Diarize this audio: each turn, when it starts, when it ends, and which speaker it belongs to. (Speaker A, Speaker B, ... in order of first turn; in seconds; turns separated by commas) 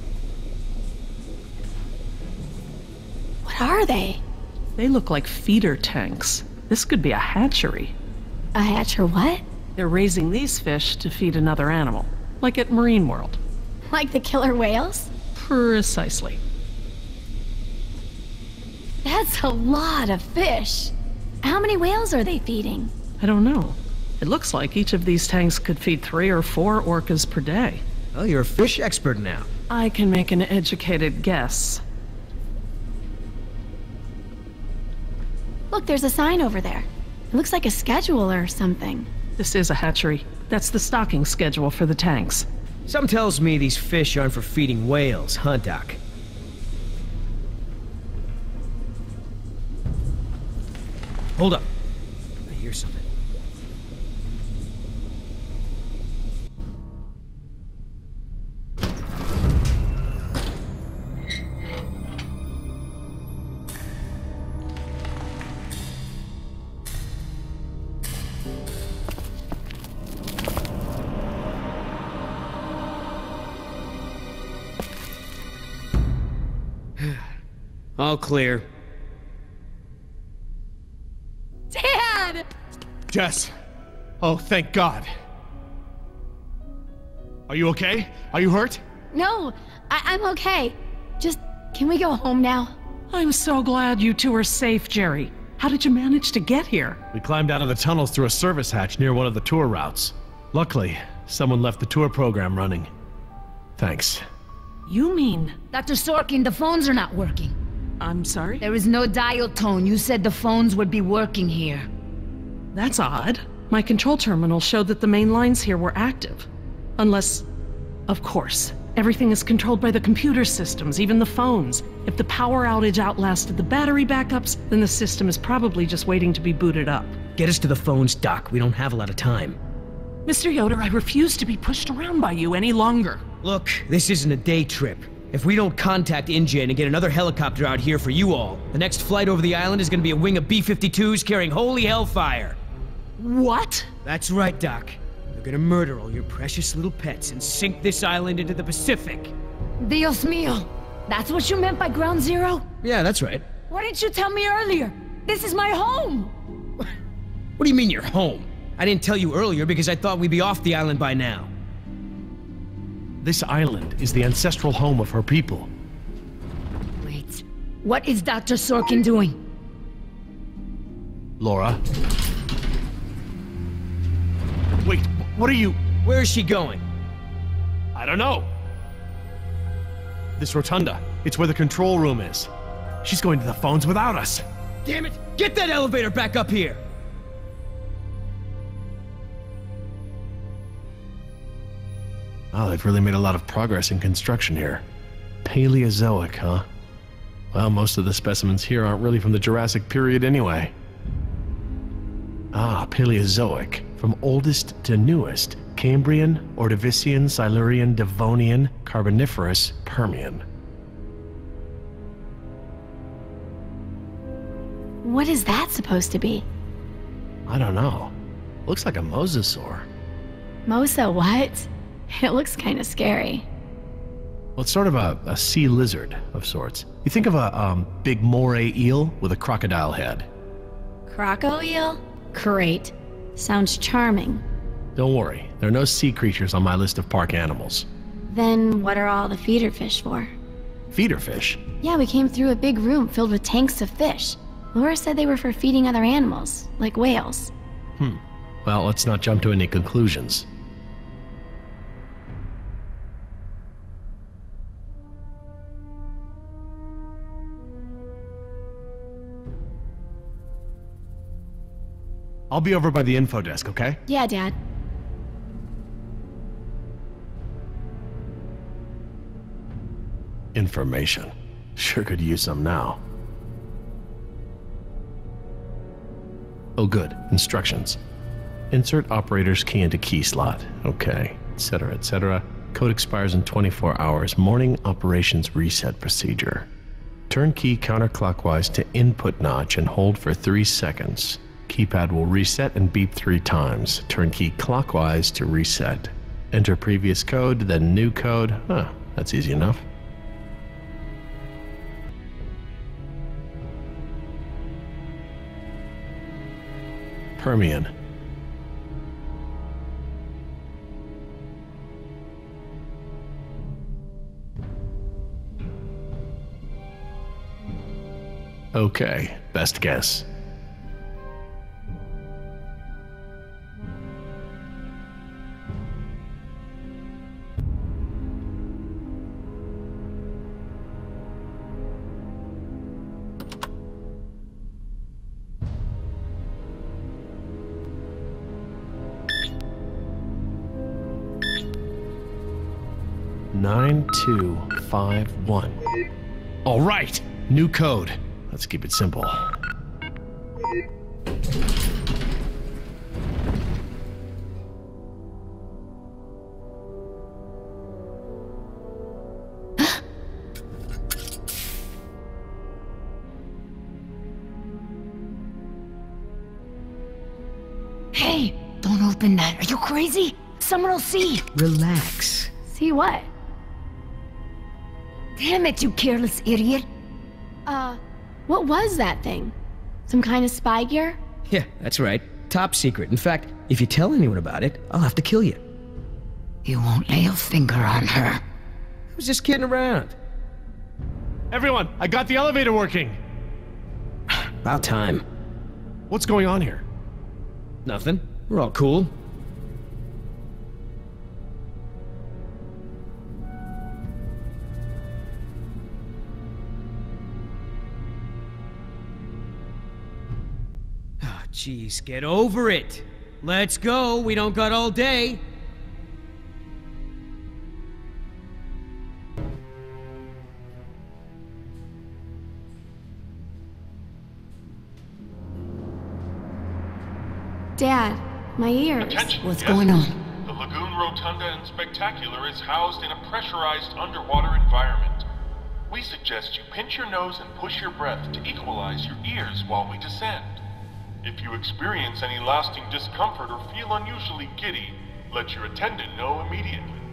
Speaker A: 3.4-4.2, Speaker B: 4.8-7.9, Speaker A: 8.5-9.4, Speaker B: 9.8-13.4, Speaker A: 13.9-15.1, Speaker B: 15.3-16.4, Speaker A: 19.0-22.9, Speaker B: 23.2-27.8, Speaker C: 28.1-29.5, Speaker B: 29.7-31.8, Speaker A: 35.7-39.1, Speaker B: 39.4-42.5, Speaker C: 42.9-46.0, Speaker C: 51.4-51.7, Speaker C: 52.5-53.0, Speaker C: 77.0-77.2, Speaker C: 78.0-78.6, Speaker A: 81.7-82.5, Speaker D: 83.1-83.5, Speaker D: 84.2-85.1, Speaker D: 87.5-88.8, Speaker A: 89.1-92.7, Speaker B: 93.1-97.0, Speaker D: 97.1-102.9, Speaker D: 103.8-104.2, Speaker B: 104.9-105.6, Speaker E: 105.7-107.5, Speaker B: 108.0-108.7, Speaker E: 108.6-111.9, Speaker B: 112.7-116.5, Speaker B: 117.0-117.5, Speaker B: 118.1-127.2, Speaker C: 127.3-129.6, Speaker B: 130.2-133.2, Speaker C: 133.4-142.6, Speaker B: 143.2-143.9, Speaker C: 144.0-149.3, Speaker E: 149.8-152.6, Speaker C: 152.8-153.5, Speaker E: 153.7-156.3, Speaker C: 157.6-161.5, Speaker D: 163.2-165.7, Speaker E: 167.0-169.4, Speaker D: 171.4-171.8, Speaker D: 174.8-175.8, Speaker C: 176.0-176.8, Speaker D: 177.9-178.5, Speaker D: 180.4-182.5, Speaker D: 183.0-184.4, Speaker C: 184.8-186.8, Speaker D: 192.5-194.8, Speaker D: 195.4-196.7, Speaker D: 197.5-200.7, Speaker D: 202.5-210.4, Speaker A: 215.0-216.4, Speaker D: 217.5-218.1, Speaker D: 218.7-219.9, Speaker A: 220.7-223.4, Speaker D: 224.6-230.3, Speaker A: 231.1-234.4, Speaker D: 234.9-237.9, Speaker A: 238.3-240.3, Speaker D: 240.9-241.6, Speaker A: 241.8-247.5, Speaker D: 248.0-250.5, Speaker D: 262.5-264.0, Speaker A: 264.1-264.5, Speaker D: 270.5-273.0, Speaker D: 276.8-278.0, Speaker D: 278.7-286.7, Speaker D: 287.3-299.8, Speaker D: 307.4-307.9, Speaker D: 318.7-320.2, Speaker D: 343.5-345.8, Speaker D: 346.6-349.5, Speaker E: 368.1-371.4, Speaker C: 371.5-372.5, Speaker A: 372.7-373.3, Speaker E: 375.4-376.9, Speaker A: 377.6-379.5, Speaker A: 380.1-381.2, Speaker C: 381.5-385.6, Speaker E: 386.6-388.4, Speaker C: 389.1-390.1, Speaker D: 391.5-393.2, Speaker C: 394.6-395.2, Speaker D: 396.1-396.8, Speaker C: 397.8-399.1, Speaker C: 411.2-415.4, Speaker A: 427.8-429.4, Speaker F: 429.0-435.2, Speaker E: 429.4-430.1, Speaker F: 435.9-440.6, Speaker F: 441.2-447.0